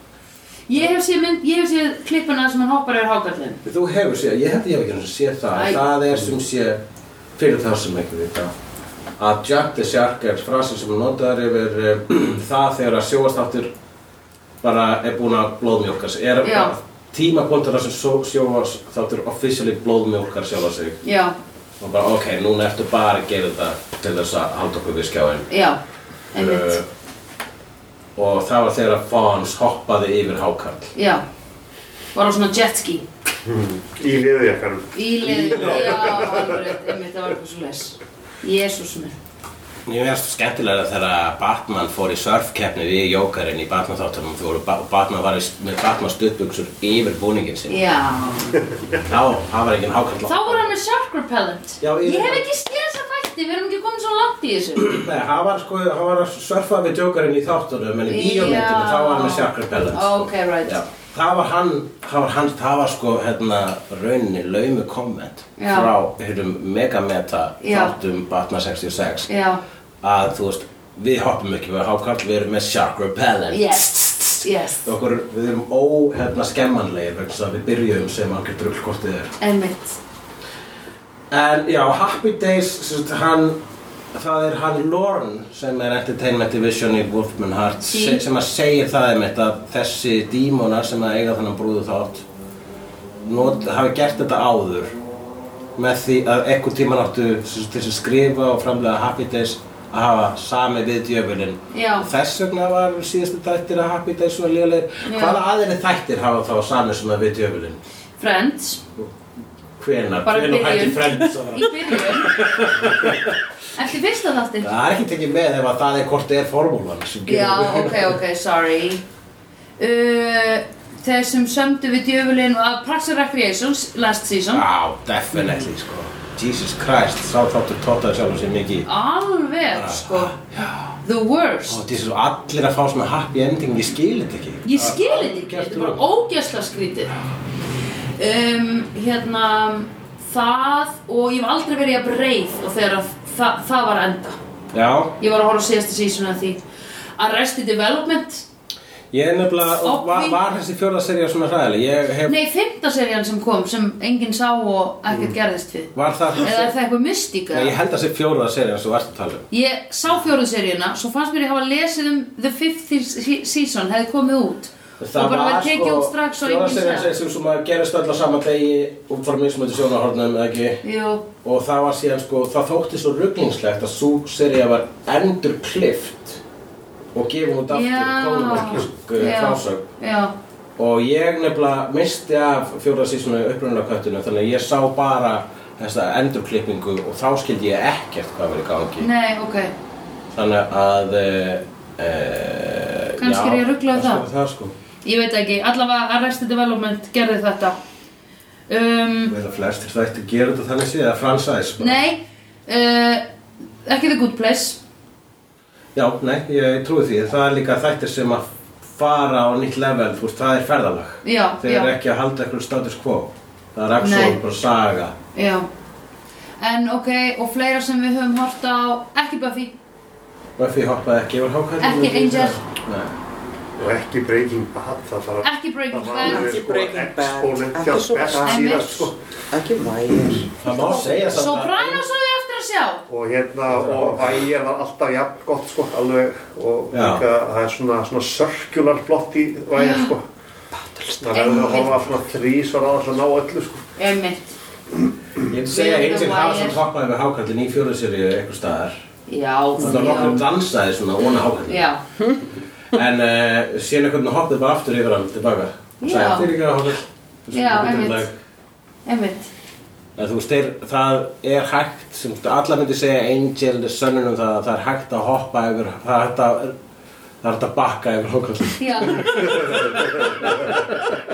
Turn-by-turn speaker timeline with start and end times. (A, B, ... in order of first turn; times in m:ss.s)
0:00.7-0:03.6 A
0:03.6-0:06.8 B
0:05.5-0:05.8 A
0:07.4-0:08.5 B
0:09.2-0:13.7 B
0:14.6-0:21.0 B
0:16.4-0:16.7 A
0:21.0-0:21.3 A
0:21.8-0:25.5 B
0:25.5-0:25.8 A
0:26.3-0:26.8 A
0:26.4-0:26.8 B
0:28.2-0:30.9 B
0:30.9-0:31.2 A
0:32.1-0:33.0 A
0:33.4-0:36.6 C
0:34.9-0:39.1 A
0:39.8-0:47.8 B
0:47.7-0:48.6 A
0:48.9-0:50.7 B
0:50.2-0:55.0 A
0:51.8-0:52.4 B
0:54.8-1:09.3 B
0:58.1-1:00.8 A
1:05.6-1:05.9 A
1:07.6-1:07.9 A
1:09.3-1:09.6 A
1:10.0-1:19.4 B
1:13.5-1:14.9 A
1:19.4-1:20.0 A
1:21.3-1:23.6 B
1:24.1-1:32.2 B
1:27.9-1:28.2 A
1:33.2-1:34.9 B
1:35.8-1:47.8 B
1:41.7-1:42.1 A
1:45.0-1:45.4 A
1:48.2-1:48.8 A
1:49.8-1:53.4 B
1:50.2-1:52.4 A
1:53.7-1:54.7 A
1:54.6-1:58.2 B
1:57.2-1:59.0 A
1:59.8-2:04.6 A
2:04.5-2:08.8 B
2:08.8-2:10.3 A
2:09.7-2:10.9 B
2:11.0-2:11.8 A
2:11.7-2:16.0 B
2:14.6-2:17.1 A
2:18.2-2:24.4 A
2:24.7-2:25.1 B
2:25.2-2:26.6 A
2:27.2-2:28.4 A
2:29.1-2:32.4 B
2:29.8-2:30.4 A
2:32.2-2:37.7 A
2:35.9-2:36.7 B
2:37.5-2:39.4 B
2:39.5-2:47.1 A
2:45.0-2:50.8 B
2:50.8-2:51.2 A
2:51.4-2:56.4 B
2:57.1-2:59.8 B
2:57.7-3:00.3 A
3:00.8-3:09.1 B
3:09.0-3:09.7 A
3:10.3-3:14.7 B
3:13.2-3:14.2 A
3:15.0-3:17.8 A
3:18.7-3:19.3 A
3:19.3-3:22.0 B
3:21.8-3:23.2 A
3:23.8-3:24.8 A
3:25.9-3:35.1 B
3:31.2-3:31.9 A
3:34.0-3:34.4 A
3:35.3-3:35.6 A
3:36.6-3:39.7 A
3:40.6-3:43.1 B
3:41.8-3:42.6 A
3:43.8-3:49.2 C
3:45.4-3:46.6 A
3:46.2-3:51.2 D
3:48.4-3:49.1 A
3:50.6-3:52.0 B
3:51.3-3:53.0 A
3:53.1-4:00.2 C
3:53.7-3:54.4 B
3:56.9-3:57.2 B
3:59.8-4:00.1 A
4:00.9-4:01.2 D
4:01.2-4:03.8 C
4:01.3-4:01.9 A
4:04.0-4:04.6 A
4:05.5-4:08.9 B
4:05.7-4:06.8 A
4:09.3-4:10.4 A
4:09.8-4:11.8 B
4:11.7-4:12.0 A
4:12.9-4:18.3 B
4:16.0-4:16.5 A
4:17.5-4:18.3 A
4:19.0-4:19.5 A
4:20.2-4:26.8 B
4:27.4-4:31.2 B
4:28.8-4:29.3 A